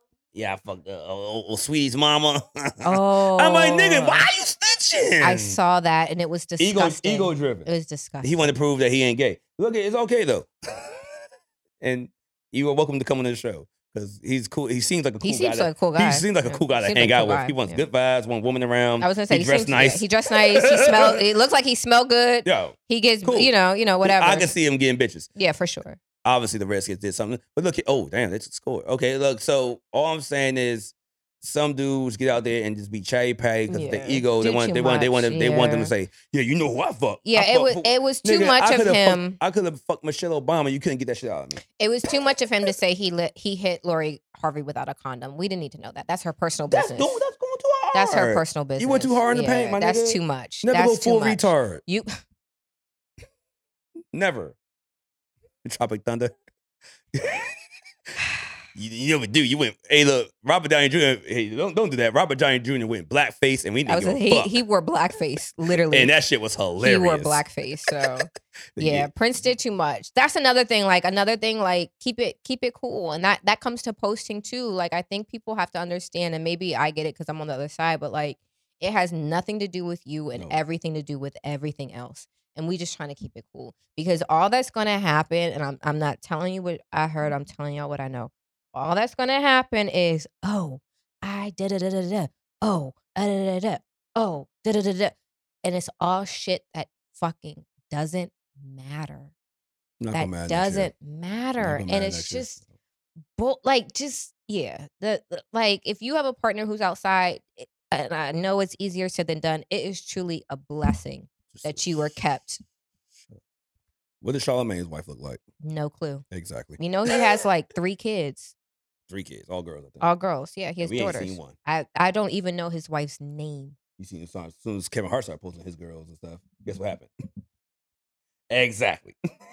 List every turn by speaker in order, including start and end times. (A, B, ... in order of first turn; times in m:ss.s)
0:00.3-0:05.6 A
0:02.8-0:04.3 B
0:05.2-0:08.5 B
0:06.6-0:07.7 A
0:08.2-0:11.0 A
0:11.8-0:21.2 A
0:15.2-0:17.8 B
0:19.0-0:24.5 B
0:22.4-0:23.5 A
0:24.0-0:25.3 A
0:25.4-0:26.0 B
0:26.2-0:41.6 A
0:33.7-0:35.9 B
0:37.2-0:39.4 B
0:41.8-0:47.2 B
0:46.7-0:51.8 A
0:47.9-0:52.1 B
0:54.1-0:54.6 A
0:55.6-0:56.3 A
0:57.1-0:57.5 A
0:58.8-1:04.5 A
1:03.9-1:06.1 B
1:05.9-1:08.0 A
1:06.8-1:39.3 B
1:08.8-1:09.1 A
1:40.0-1:40.9 A
1:40.1-1:42.6 B
1:41.6-1:42.7 A
1:43.4-1:52.6 B
1:51.5-1:52.2 A
1:54.2-1:55.4 A
1:55.6-1:56.2 B
1:56.3-1:57.1 A
1:56.8-1:58.6 B
1:59.1-2:00.0 A
2:00.0-2:03.8 B
2:00.8-2:01.6 A
2:04.0-2:07.1 A
2:08.5-2:09.2 A